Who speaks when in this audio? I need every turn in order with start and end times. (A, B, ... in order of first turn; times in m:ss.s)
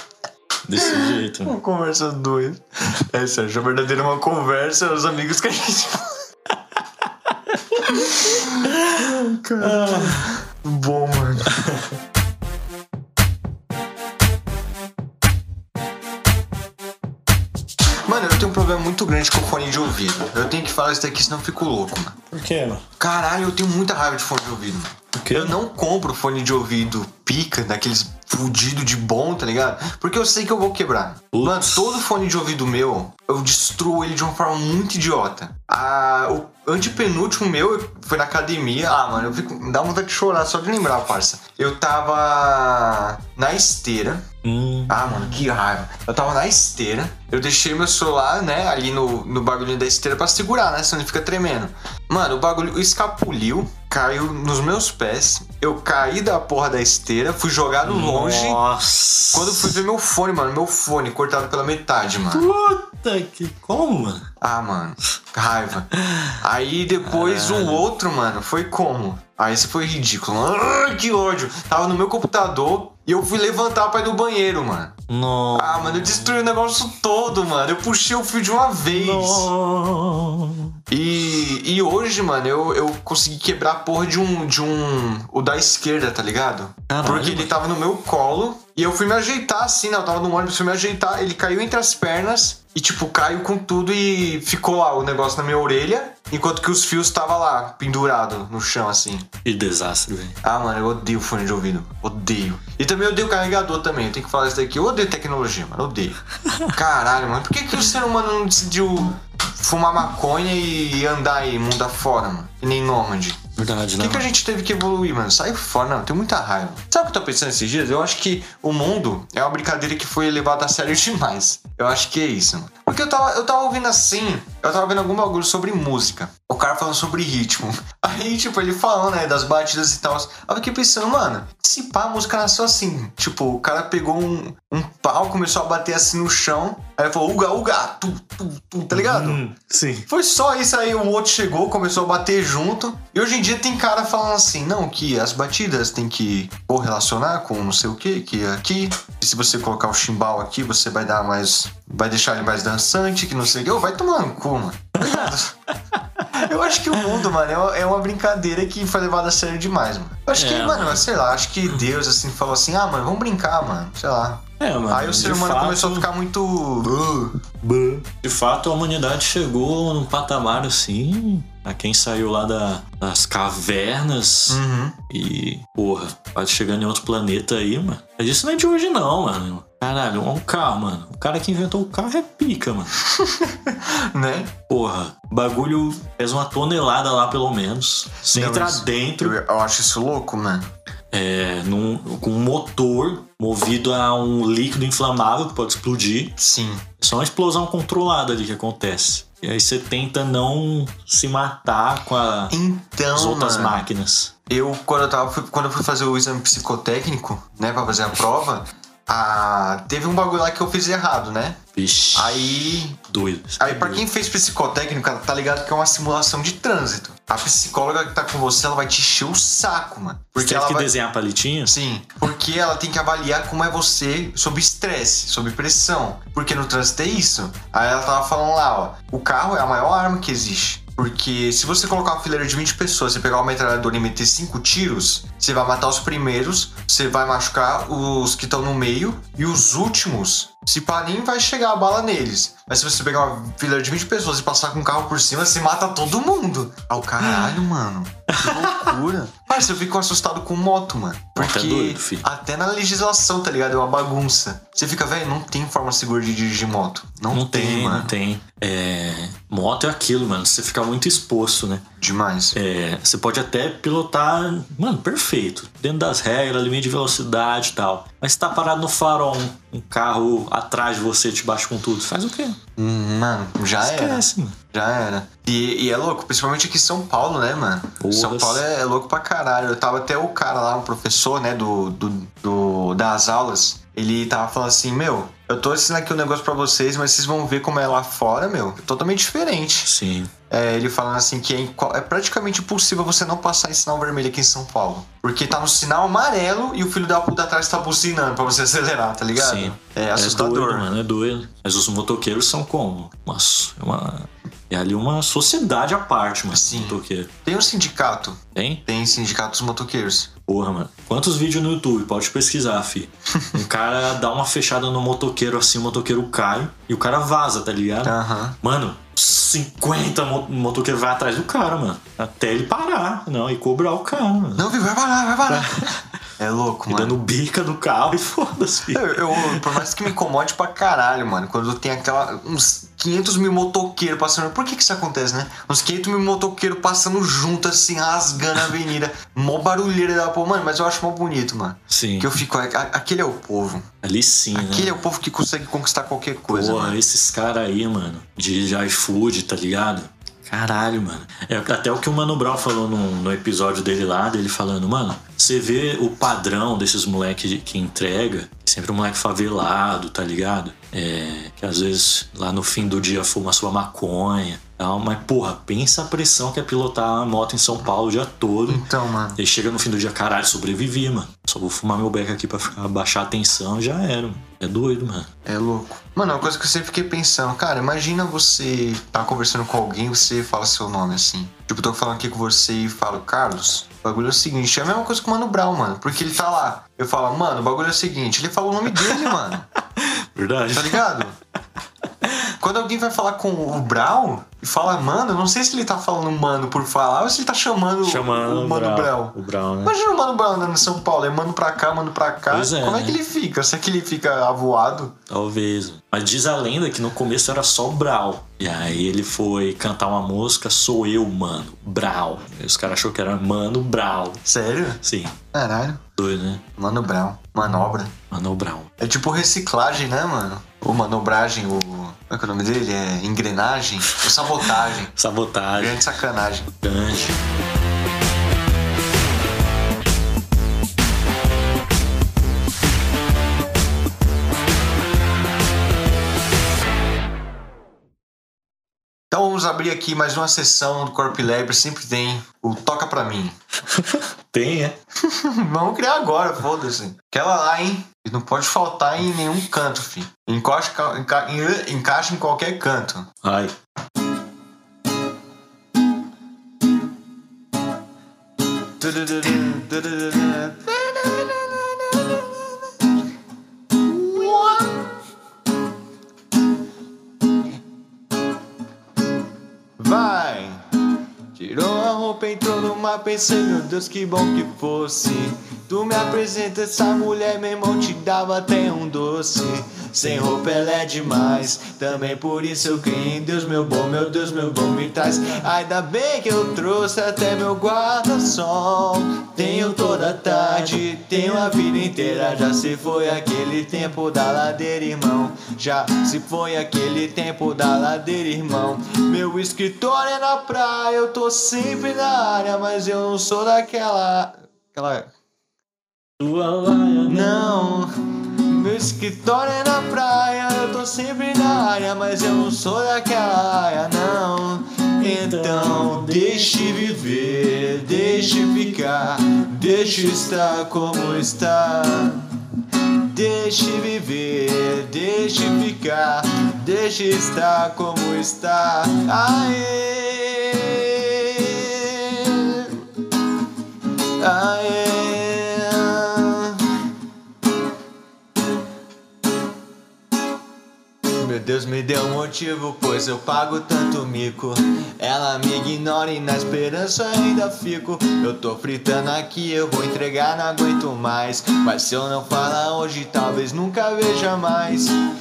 0:00.6-0:01.6 A
0:00.8-0:06.2 B
0:07.8-0:11.6 B
0:08.8-0:10.3 A
0:18.0-0:22.2 B
0:22.3-0:22.8 A
0:23.0-0:44.2 B
0:25.1-0:25.6 A
0:31.3-0:32.0 A
0:44.4-0:45.0 A
0:44.9-0:58.6 B
0:57.8-0:59.8 A
0:59.3-1:02.5 B
1:02.3-1:04.3 A
1:04.4-1:15.0 B
1:06.0-1:06.4 A
1:07.0-1:07.9 A
1:15.1-1:16.4 A
1:15.5-1:19.5 B
1:18.9-1:20.8 A
1:20.9-1:39.3 B
1:26.9-1:27.5 A
1:39.4-1:40.4 A
1:40.4-1:53.4 B
1:53.6-1:54.3 A
1:54.0-2:19.4 B
2:18.9-2:20.1 A
2:20.1-2:35.5 B
2:35.0-2:35.4 A
2:35.9-2:36.4 A
2:36.3-2:47.3 B
2:40.3-2:41.1 A
2:44.6-2:46.1 A
2:47.6-3:03.0 A
2:54.5-2:55.0 B
3:03.0-3:04.5 B
3:04.7-3:09.4 A
3:08.3-3:10.7 B
3:11.1-3:16.4 A
3:16.4-3:16.9 B
3:17.0-3:22.5 A
3:22.5-3:23.8 B
3:23.1-3:24.3 A
3:24.5-3:31.6 B
3:31.7-3:34.0 A
3:32.1-3:33.0 B
3:33.6-3:40.9 B
3:40.4-3:41.7 A
3:41.6-4:18.1 B
4:08.3-4:08.9 A
4:11.4-4:12.2 A
4:17.3-4:21.8 A
4:22.0-4:22.6 B
4:22.5-4:32.6 A
4:32.8-4:49.9 B
4:33.8-4:34.6 A
4:38.0-4:38.6 A
4:49.8-4:50.3 A
4:50.5-5:00.9 B
4:59.3-5:07.3 A
5:06.5-5:10.3 B
5:08.5-5:08.8 A
5:10.4-5:24.7 A
5:18.0-5:18.6 B
5:24.6-5:27.2 B
5:25.5-5:25.9 A
5:26.9-5:29.9 A
5:28.9-5:43.9 B
5:41.9-5:42.3 A
5:44.0-5:45.0 A
5:44.5-5:47.0 B
5:46.5-6:15.3 A
6:08.7-6:09.4 B
6:15.4-6:29.7 B
6:29.0-6:29.4 A
6:30.0-6:31.0 A
6:30.7-6:31.3 B
6:32.2-6:32.5 A
6:32.6-6:45.2 B
6:38.0-6:39.9 A
6:42.5-6:43.2 A
6:45.3-6:54.4 A
6:54.4-6:55.0 B
6:55.0-6:55.4 A
6:55.5-6:56.0 B
6:56.2-6:56.6 A
6:56.8-6:58.1 B
6:58.3-6:58.9 A
6:59.0-7:05.1 B
7:05.1-7:06.0 A
7:05.8-7:06.7 B
7:06.8-7:07.4 A
7:19.3-7:23.6 B
7:23.9-7:25.0 A
7:25.2-7:33.3 B
7:33.4-7:33.7 A
7:39.0-7:42.7 B
7:43.9-7:45.0 B
7:50.0-7:50.8 B
7:51.5-8:25.3 B
8:26.4-8:27.8 A
8:27.3-8:53.0 B
8:35.2-8:36.8 A
8:54.4-8:57.0 B
9:01.4-9:15.2 B